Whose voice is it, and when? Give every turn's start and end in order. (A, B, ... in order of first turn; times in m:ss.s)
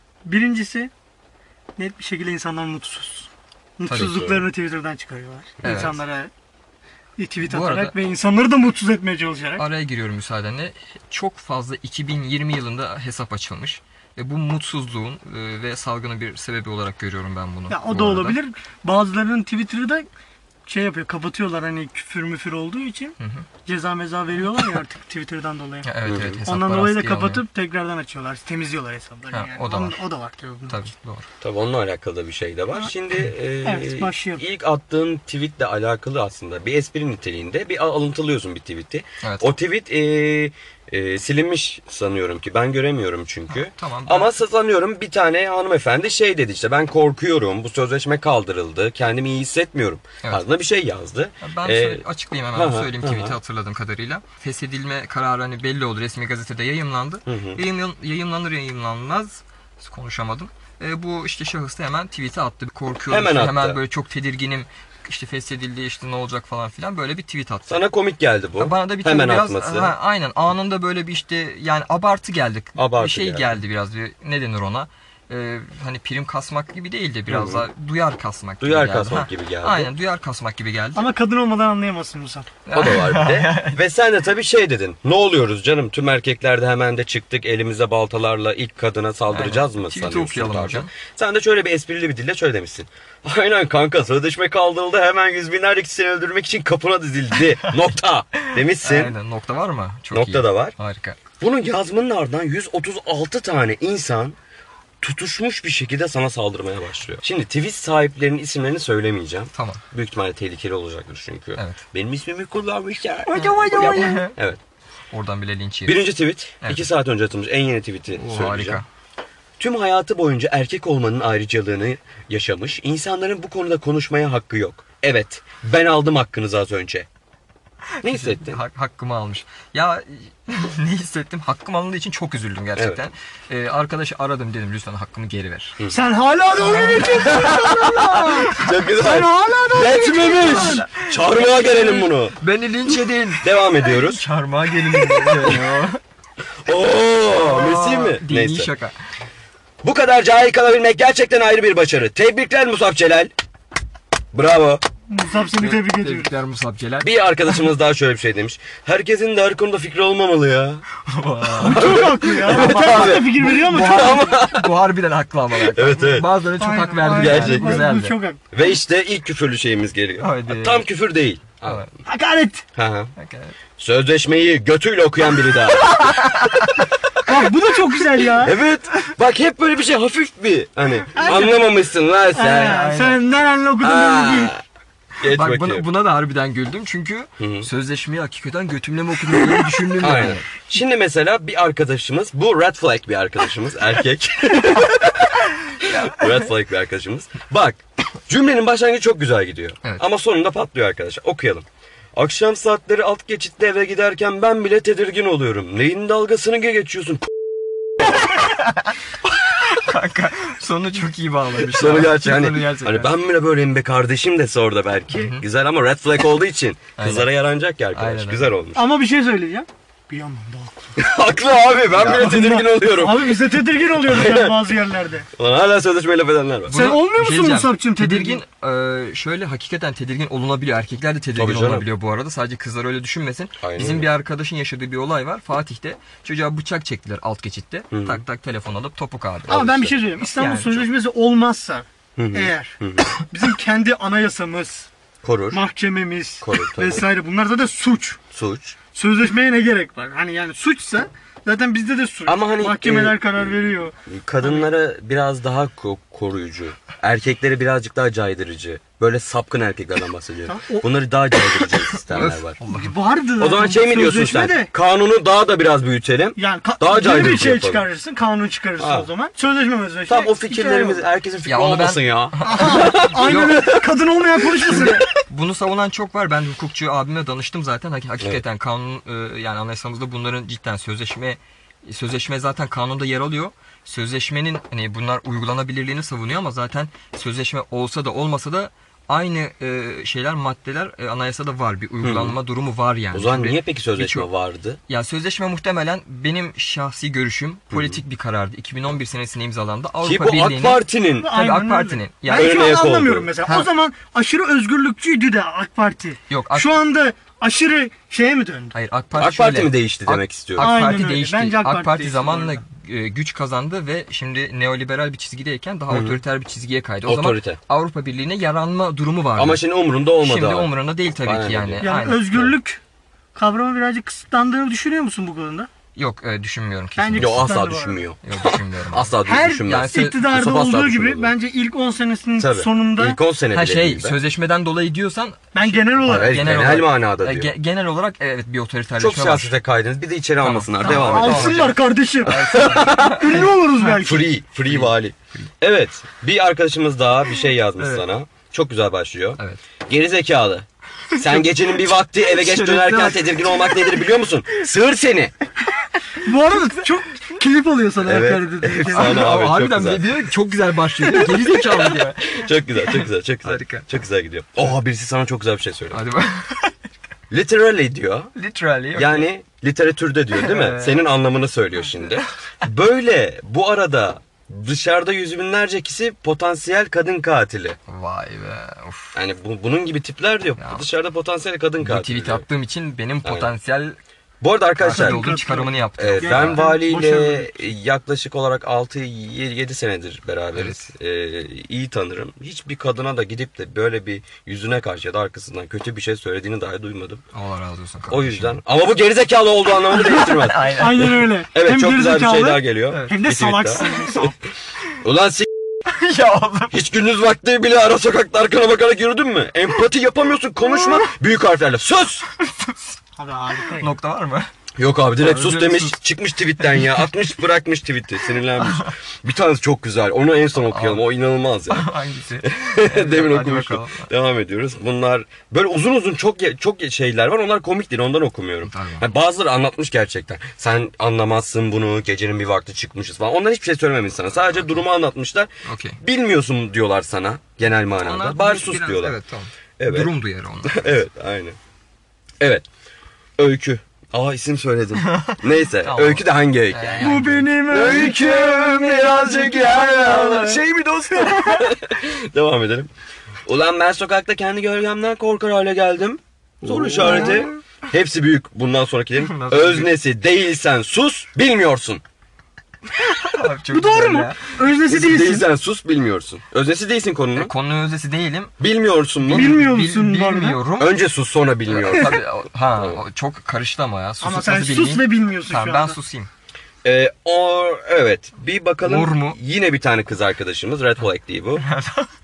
0:00.2-0:00.9 A
0:01.8-0:06.3 A
0:03.9-0:04.3 B
0:03.9-0:04.4 C
0:05.6-0:06.0 B
0:07.2-0:09.6 A
0:07.4-0:07.9 B
0:09.6-0:18.4 B
0:17.7-0:20.1 A
0:20.7-0:23.2 A
0:23.2-0:23.5 B
0:23.7-0:25.9 A
0:25.8-0:27.4 B
0:26.0-0:26.4 C
0:26.4-0:30.8 A
0:29.3-0:30.0 B
0:30.7-0:31.3 B
0:31.4-0:53.4 C
0:33.6-0:34.4 A
0:39.2-0:39.5 B
0:43.5-0:44.3 B
0:51.4-1:07.8 B
0:57.3-0:57.6 C
1:03.1-1:03.8 C
1:07.7-1:10.0 C
1:08.6-1:21.1 B
1:12.8-1:13.6 C
1:17.3-1:17.7 C
1:18.6-1:19.9 C
1:21.0-1:22.5 A
1:22.7-1:23.8 B
1:22.7-1:39.2 C
1:29.3-1:30.9 B
1:38.5-1:41.2 B
1:40.1-1:40.8 C
1:41.4-1:44.4 C
1:45.0-1:54.6 C
1:49.5-1:49.8 B
1:51.6-1:51.8 B
1:53.3-1:54.3 A
1:53.3-1:54.3 B
1:55.1-1:56.1 B
1:55.9-1:58.8 C
1:56.6-1:56.9 B
1:58.2-1:58.9 B
1:59.6-2:07.1 C
2:08.0-2:15.8 B
2:08.0-2:08.6 C
2:15.9-2:20.9 A
2:16.6-2:18.7 B
2:17.0-2:22.4 C
2:20.4-2:26.0 B
2:23.4-2:24.2 C
2:24.9-2:25.8 C
2:26.6-2:28.7 C
2:27.4-2:29.0 B
2:29.8-2:33.3 C
2:34.3-2:34.8 C
2:35.1-2:36.3 A
2:35.6-2:37.1 B
2:37.0-2:40.8 C
2:41.0-2:48.2 B
2:41.6-2:44.4 A
2:41.6-2:44.7 C
2:45.5-2:46.3 C
2:46.6-2:48.4 A
2:47.1-2:47.9 C
2:48.5-2:51.8 C
2:50.2-2:50.8 B
2:51.6-2:51.9 B
2:52.1-2:52.6 A
2:52.7-2:53.1 C
2:53.2-2:53.6 B
2:53.8-2:56.3 C
2:55.9-2:56.9 B
2:57.2-2:58.6 A
2:58.3-3:02.9 C
3:01.2-3:01.6 A
3:02.3-3:04.5 A
3:02.5-3:03.2 B
3:03.8-3:04.6 C
3:05.2-3:05.9 C
3:05.2-3:10.5 B
3:07.4-3:07.7 C
3:10.0-3:27.4 C
3:15.6-3:16.4 B
3:29.4-3:33.1 B
3:31.7-3:38.8 C
3:35.1-3:35.4 B
3:37.0-3:37.3 B
3:37.9-3:38.5 B
3:38.8-3:41.0 A
3:41.0-3:44.6 C
3:42.0-3:45.3 A
3:45.4-3:46.8 C
3:46.7-4:00.9 B
3:46.7-3:48.4 A
3:51.4-3:51.9 C
3:53.6-3:54.1 C
3:57.9-3:58.2 C
3:59.5-3:59.9 C
3:59.5-4:04.9 A
4:02.2-4:03.1 C
4:05.2-4:05.6 C
4:05.5-4:08.2 A
4:06.4-4:07.1 C
4:08.3-4:08.8 C
4:09.0-4:14.7 A
4:12.3-4:22.6 C
4:20.5-4:20.9 A
4:21.9-4:23.0 B
4:22.7-4:24.7 A
4:23.4-4:27.9 C
4:26.4-4:31.0 A
4:28.8-4:29.1 C
4:30.1-4:33.6 C
4:31.5-4:33.7 B
4:32.4-4:35.1 A
4:34.6-4:54.3 B
4:52.0-4:52.4 C
4:53.1-4:54.8 C
4:54.9-5:02.6 B
4:57.7-4:58.0 C
5:00.0-5:01.3 C
5:01.2-5:08.8 A
5:02.3-5:03.3 C
5:06.3-5:06.7 B
5:08.7-5:19.6 B
5:09.2-5:10.8 C
5:10.6-5:12.6 A
5:15.9-5:16.2 C
5:17.0-5:17.6 C
5:19.4-5:20.7 C
5:20.2-5:22.4 B
5:21.2-5:22.5 C
5:21.8-5:22.8 A
5:23.4-5:25.7 A
5:26.0-5:27.5 B
5:27.0-5:28.0 A
5:27.2-5:31.3 C
5:28.2-5:30.2 B
5:29.2-5:33.2 A
5:32.4-5:34.2 C
5:33.5-5:39.5 B
5:35.5-5:36.4 A
5:36.0-5:37.5 C
5:39.0-5:41.8 C
5:40.4-5:44.0 B
5:40.8-5:44.3 A
5:42.3-5:43.2 C
5:44.0-5:55.3 C
5:44.7-5:45.5 B
5:47.8-5:48.1 B
5:51.1-5:53.8 B
5:56.2-5:59.2 A
5:58.0-6:00.1 C
5:58.9-6:03.9 B
6:01.1-6:06.0 C
6:05.9-6:06.8 B
6:07.3-6:08.3 C
6:08.4-6:09.3 B
6:09.0-6:17.8 C
6:10.3-6:11.1 B
6:17.9-6:19.2 B
6:19.1-6:22.4 C
6:20.6-6:20.9 B
6:21.8-6:24.0 B
6:23.2-6:23.5 C
6:24.4-6:25.3 C
6:24.8-6:26.8 B
6:24.9-6:27.5 A
6:26.0-6:37.2 C
6:30.6-6:30.9 B
6:37.3-6:38.6 B
6:38.1-6:44.3 C
6:39.9-6:41.2 B
6:40.6-6:44.4 A
6:42.9-6:43.2 B
6:45.0-6:45.5 C
6:45.9-6:46.8 B
6:46.7-6:52.3 C
6:52.4-6:53.0 B
6:53.2-6:53.9 A
6:53.6-6:54.5 B
6:54.8-7:01.9 C
6:55.2-6:56.0 B
6:56.6-6:57.0 B
6:58.6-6:58.9 B
7:00.6-7:01.0 B
7:01.7-7:04.1 B
7:02.4-7:19.2 C
7:08.6-7:09.1 B
7:15.6-7:16.0 B
7:18.0-7:21.0 B
7:19.8-7:20.1 C
7:20.6-7:21.6 C
7:22.4-7:22.7 C
7:23.4-7:32.9 C
7:25.0-7:27.5 B
7:27.0-7:30.6 A
7:33.5-7:42.0 C
7:36.6-7:37.6 B
7:37.0-7:37.5 A
7:39.2-7:39.9 B
7:43.0-7:44.6 B
7:43.7-7:45.5 A
7:44.9-7:47.5 C
7:47.4-7:48.5 B
7:48.6-7:49.6 C
7:49.2-7:51.0 B
7:49.3-7:50.6 A
7:50.8-7:52.2 C
7:51.7-7:56.3 B
7:52.8-7:53.0 C
7:54.2-7:56.0 A
7:56.8-8:01.6 C
7:58.8-7:59.4 B
8:01.6-8:02.1 B